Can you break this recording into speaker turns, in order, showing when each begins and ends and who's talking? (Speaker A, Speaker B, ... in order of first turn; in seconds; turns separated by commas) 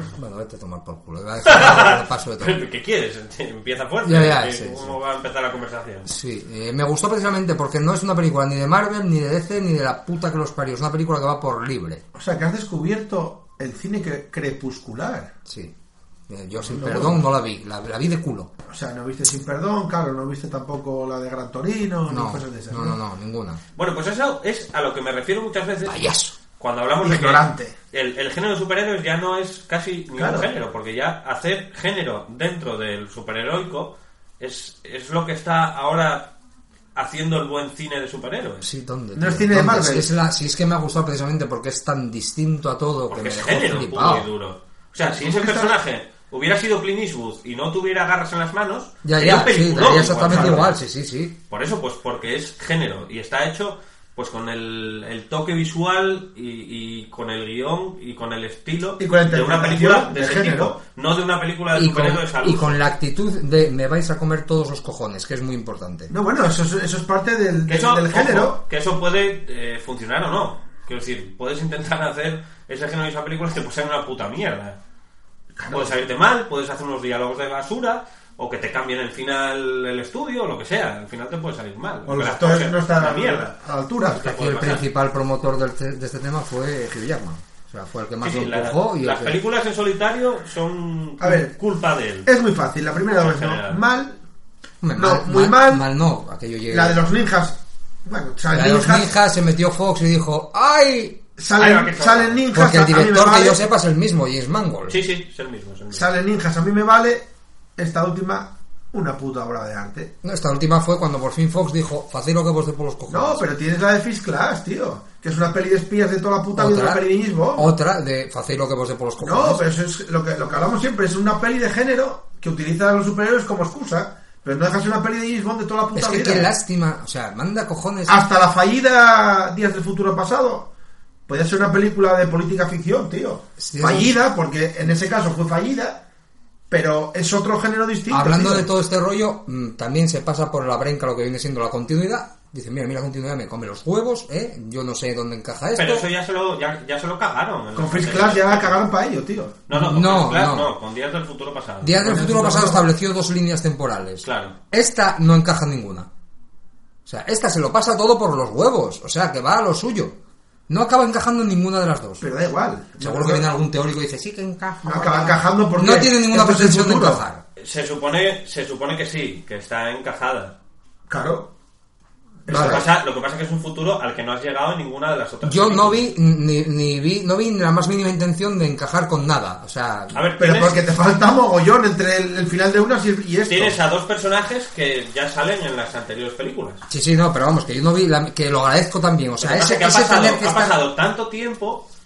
Speaker A: 0.1-2.6, Speaker B: 1.4-6.1, Speaker A: 4.0-5.0, Speaker A: 6.1-12.0, Speaker C: 12.1-15.3, Speaker A: 15.5-15.7, Speaker A: 16.3-18.5, Speaker C: 16.6-17.2, Speaker C: 18.7-23.0, Speaker A: 22.1-23.6, Speaker B: 23.8-26.0, Speaker A: 25.8-26.4, Speaker B: 26.6-36.3, Speaker C: 27.0-27.8, Speaker C: 30.2-30.5, Speaker B: 37.0-38.7, Speaker A: 38.6-44.3, Speaker C: 39.1-40.1, Speaker B: 43.1-50.8, Speaker C: 45.1-45.8, Speaker A: 49.0-51.4, Speaker C: 50.2-50.7, Speaker B: 51.5-62.8, Speaker C: 59.0-60.8, Speaker A: 61.7-66.1, Speaker C: 66.1-68.6, Speaker B: 67.7-74.8, Speaker C: 75.6-76.0, Speaker B: 75.7-83.5, Speaker C: 82.1-84.3, Speaker B: 84.2-84.8, Speaker A: 84.2-89.4, Speaker B: 88.2-92.3, Speaker C: 91.2-91.5, Speaker C: 92.2-94.2, Speaker B: 93.2-93.8, Speaker A: 94.8-97.0, Speaker C: 95.0-95.8, Speaker C: 96.7-99.1, Speaker A: 98.5-101.2, Speaker C: 101.4-103.6, Speaker B: 101.6-102.4, Speaker A: 102.5-105.0, Speaker B: 104.9-106.1, Speaker C: 105.9-107.3, Speaker C: 107.8-110.1, Speaker A: 110.2-113.4, Speaker C: 113.1-117.7, Speaker A: 116.5-119.7, Speaker C: 119.2-126.5, Speaker A: 125.9-128.2, Speaker C: 128.1-130.7, Speaker C: 131.3-136.0, Speaker A: 133.6-134.2, Speaker C: 136.7-138.7, Speaker A: 138.1-146.1, Speaker B: 145.7-148.8, Speaker C: 147.8-149.6, Speaker B: 149.7-152.0, Speaker A: 149.7-150.7, Speaker A: 151.8-156.1, Speaker C: 152.0-152.8, Speaker B: 154.2-154.6, Speaker A: 157.1-160.2, Speaker A: 160.7-162.2, Speaker C: 162.2-163.5, Speaker A: 163.0-167.4, Speaker C: 164.8-167.2, Speaker B: 167.6-170.6, Speaker C: 171.1-171.5, Speaker C: 172.5-172.9, Speaker A: 172.5-172.9, Speaker B: 172.5-176.1, Speaker A: 175.4-180.2, Speaker B: 180.1-180.8, Speaker C: 180.4-183.8, Speaker B: 183.5-186.8, Speaker A: 186.9-190.8, Speaker B: 189.4-191.8